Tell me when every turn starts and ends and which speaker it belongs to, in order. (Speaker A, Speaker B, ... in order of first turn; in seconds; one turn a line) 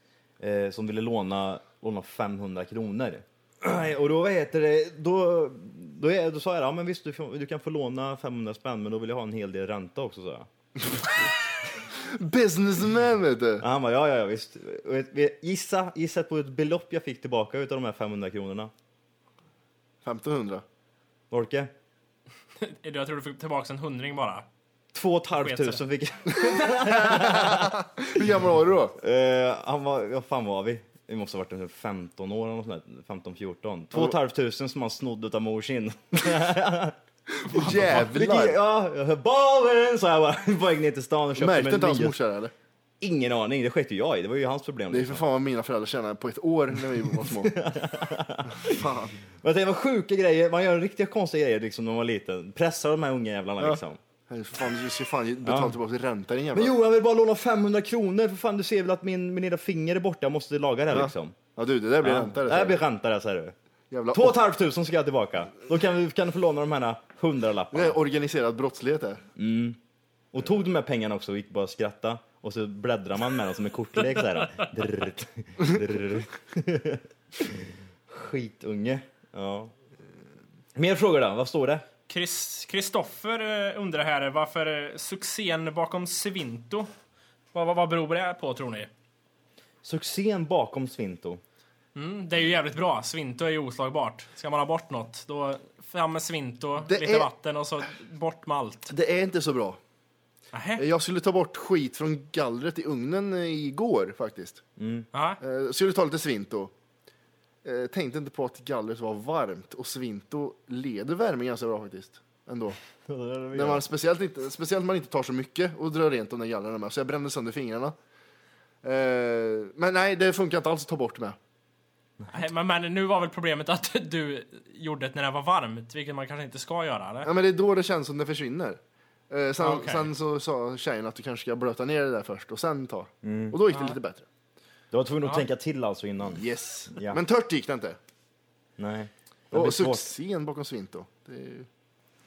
Speaker A: 0.4-10.5
Speaker B: 11.9-13.6
Speaker A: 13.6-18.7
Speaker B: 20.0-20.6
Speaker A: 21.3-21.7
Speaker C: 22.6-24.4
Speaker A: 24.9-28.2
Speaker C: 25.4-25.8
Speaker B: 26.5-28.9
Speaker A: 29.0-37.0
Speaker B: 37.3-38.6
Speaker A: 37.5-42.1
Speaker B: 41.4-42.5
Speaker A: 43.0-45.2
Speaker B: 44.9-47.6
Speaker A: 47.2-48.8
Speaker B: 48.6-49.1
Speaker A: 49.4-54.0
Speaker B: 53.6-56.7
Speaker A: 55.4-55.8
Speaker A: 56.5-61.4
Speaker B: 60.9-62.8
Speaker A: 62.0-63.5
Speaker B: 63.9-64.4
Speaker A: 64.1-68.0
Speaker B: 67.7-69.2
Speaker A: 69.4-69.8
Speaker A: 70.3-79.7
Speaker A: 80.7-81.8
Speaker C: 82.1-86.9
Speaker C: 87.5-88.9
Speaker A: 89.8-91.4
Speaker C: 91.9-98.9
Speaker B: 96.8-97.3
Speaker B: 98.9-99.8
Speaker C: 100.5-100.8
Speaker B: 100.8-104.6
Speaker A: 104.8-105.1
Speaker C: 105.1-105.4
Speaker B: 105.4-106.7
Speaker B: 107.6-112.8
Speaker A: 113.1-113.8
Speaker B: 113.5-117.9
Speaker B: 118.8-121.4
Speaker C: 122.3-127.3
Speaker B: 127.2-128.8
Speaker B: 129.3-134.2
Speaker C: 129.6-130.1
Speaker A: 133.2-133.6
Speaker A: 134.9-136.4
Speaker B: 136.3-138.0
Speaker A: 138.8-140.1
Speaker B: 139.5-141.7